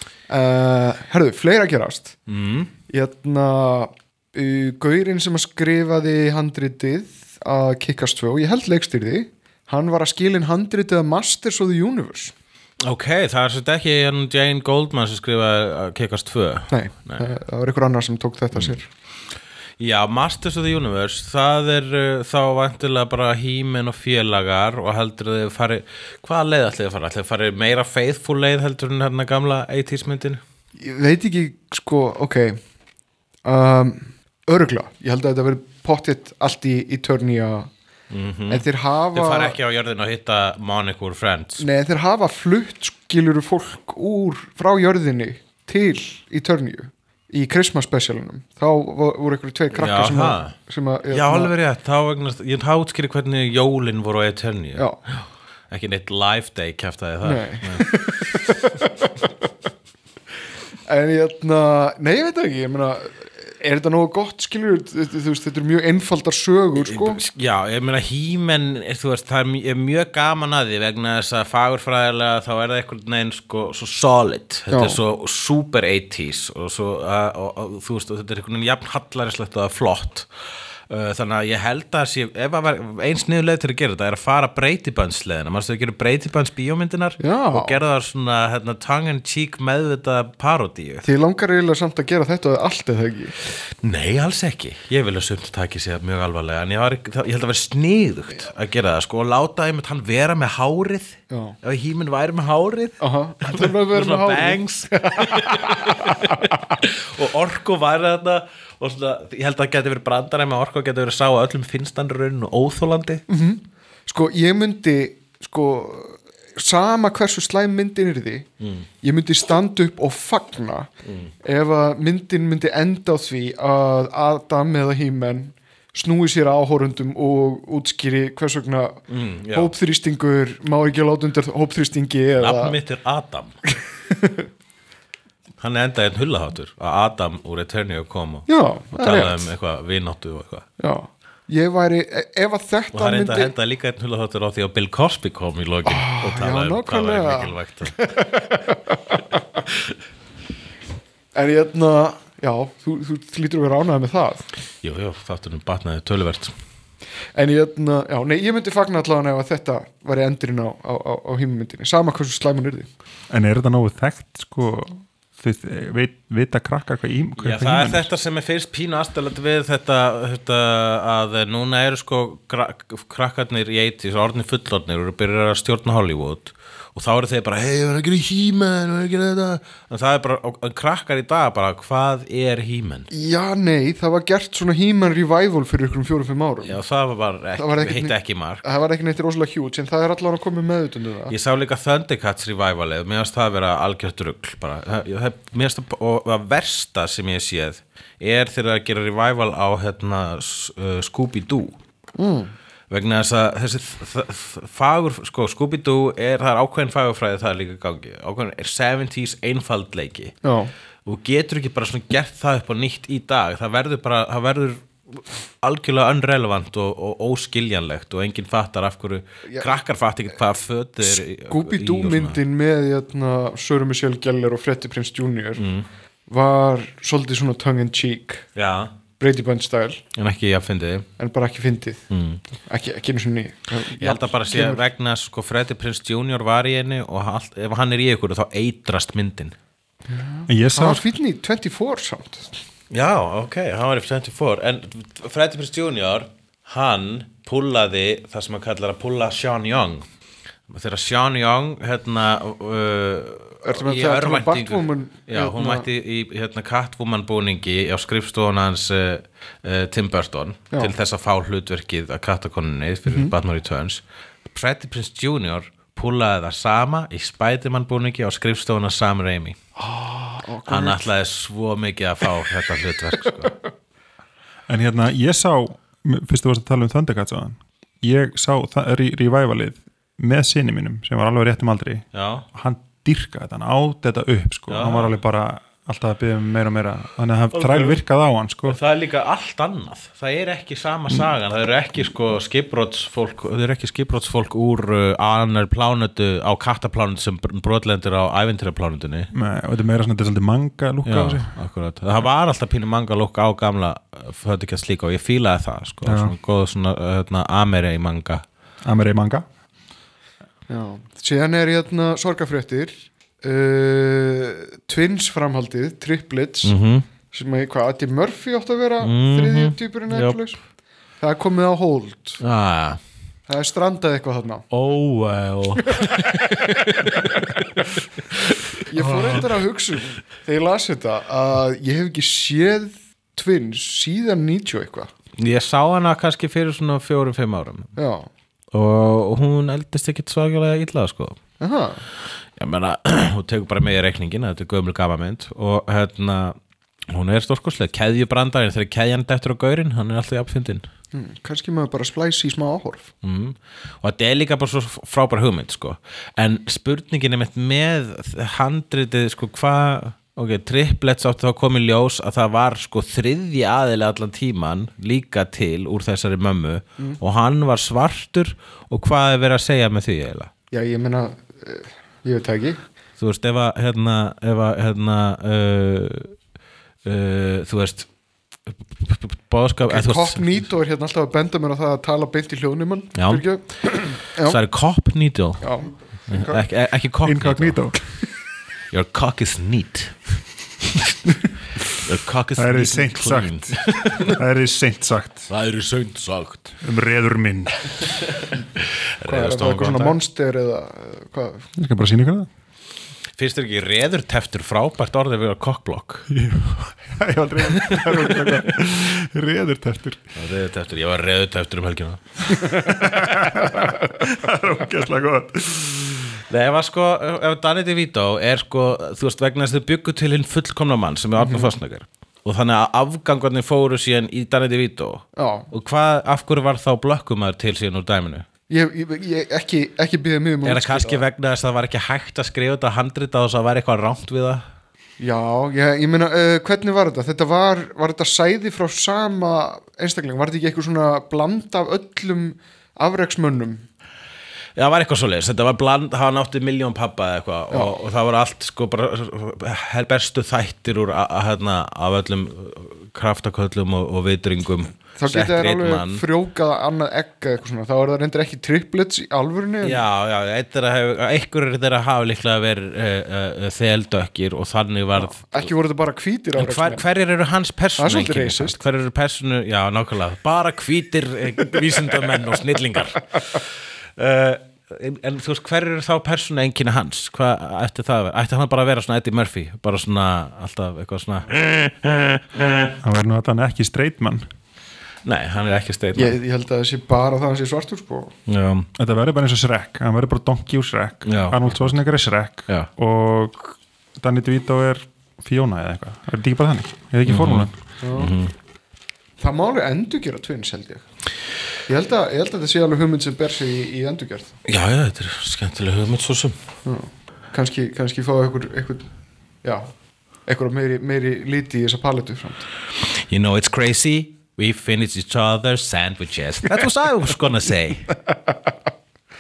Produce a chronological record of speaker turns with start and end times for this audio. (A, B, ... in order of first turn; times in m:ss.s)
0:00.3-0:02.2 A
0:02.3-0:02.7 B
0:02.9-0:12.3 A
0:12.8-0:17.2 B
0:16.7-0:18.8 A
0:19.8-0:30.4 B
0:30.8-0:32.6 A
0:33.4-0:37.7 A
0:38.1-0:41.7 B
0:38.5-0:39.6 A
0:41.6-0:51.5 A
0:49.8-0:50.6 B
0:51.1-0:58.0 B
0:57.2-0:59.1 A
1:00.9-1:07.2 A
1:06.8-1:20.3 B
1:14.7-1:15.0 A
1:20.9-1:31.1 B
1:27.2-1:27.7 A
1:31.0-1:33.4 A
1:33.8-1:53.2 B
1:41.3-1:41.6 A
1:43.0-1:46.5 A
1:53.3-1:58.5 A
1:58.6-1:58.9 B
1:59.0-2:00.9 A
2:01.0-2:01.3 B
2:01.4-2:09.0 A
2:09.1-2:09.7 B
2:09.5-2:12.8 A
2:12.4-2:13.6 B
2:14.1-2:14.5 A
2:15.6-2:20.7 B
2:18.5-2:19.5 A
2:20.8-2:23.5 A
2:22.9-2:28.2 B
2:25.9-2:29.4 A
2:31.4-2:34.5 A
2:34.8-2:36.5 B
2:37.4-2:42.9 A
2:43.3-2:48.1 C
2:47.4-3:03.1 B
3:03.1-3:06.8 A
3:06.6-3:08.7 B
3:07.6-3:11.3 A
3:11.3-3:21.8 B
3:22.2-3:22.5 A
3:22.9-3:30.4 B
3:30.4-3:30.7 A
3:31.1-3:42.4 B
3:41.0-3:45.6 A
3:45.6-3:45.9 B
3:46.3-3:48.5 A
3:48.6-3:48.9 B
3:49.2-3:50.0 A
3:50.2-3:51.1 B
3:51.2-3:52.0 A
3:52.1-3:52.4 B
3:52.7-3:54.8 A
3:54.0-3:59.6 B
4:00.1-4:02.6 A
4:00.5-4:01.0 C
4:02.9-4:10.0 B
4:10.7-4:29.6 B
4:13.6-4:15.8 A
4:23.1-4:23.3 A
4:29.8-4:31.0 A
4:30.7-4:33.5 B
4:34.7-4:48.8 C
4:42.1-4:42.4 B
4:44.7-4:45.2 B
4:47.5-4:48.0 B
4:48.7-4:59.3 B
4:59.3-5:01.5 C
5:01.0-5:08.4 B
5:06.0-5:06.4 C
5:08.8-5:09.5 C
5:10.7-5:16.8 A
5:16.6-5:17.1 B
5:17.3-5:20.6 A
5:19.0-5:20.4 B
5:21.2-5:22.4 A
5:22.4-5:23.0 B
5:23.5-5:24.6 A
5:24.7-5:27.7 B
5:25.9-5:27.6 A
5:28.9-5:35.1 A
5:29.0-5:29.4 C
5:29.1-5:29.5 B
5:35.4-5:37.9 B
5:38.0-5:38.3 A
5:38.7-5:41.4 B
5:41.6-5:42.0 A
5:42.6-5:46.6 B
5:47.1-5:50.8 B
5:51.1-5:53.1 A
5:53.2-6:10.5 B
6:10.7-6:12.8 A
6:13.2-6:16.4 B
6:17.0-6:18.1 B
6:18.7-6:20.7 B
6:19.8-6:24.6 A
6:23.2-6:28.2 B
6:25.6-6:26.0 A
6:26.3-6:26.6 C
6:27.2-6:28.0 C
6:28.9-6:30.5 B
6:31.9-6:34.4 B
6:32.6-6:35.5 C
6:35.5-6:36.8 B
6:36.8-6:38.0 C
6:39.2-6:40.2 B
6:39.2-6:41.7 A
6:41.8-6:42.5 C
6:43.4-6:46.3 B
6:46.3-6:50.2 C
6:48.0-6:48.4 B
6:50.4-6:52.7 B
6:52.8-6:56.4 C
6:56.5-7:08.4 B
7:01.4-7:01.7 A
7:05.4-7:05.7 A
7:08.7-7:11.2 A
7:10.6-7:14.6 B
7:15.2-7:23.8 A
7:24.8-7:36.2 B
7:35.2-7:40.0 A
7:39.8-7:45.7 B
7:45.2-7:47.0 A
7:46.6-8:02.9 B
7:48.0-7:48.8 A
8:03.0-8:04.5 C
8:05.2-8:06.4 B
8:06.2-8:08.3 A
8:08.5-8:08.9 B
8:09.0-8:17.7 C
8:11.2-8:11.9 B
8:17.3-8:18.5 B
8:18.0-8:18.3 A
8:19.4-8:21.0 A
8:21.9-8:24.5 A
8:24.7-8:26.6 B
8:26.8-8:29.1 A
8:29.6-8:29.9 A
8:30.4-8:32.6 A
8:33.0-8:38.1 B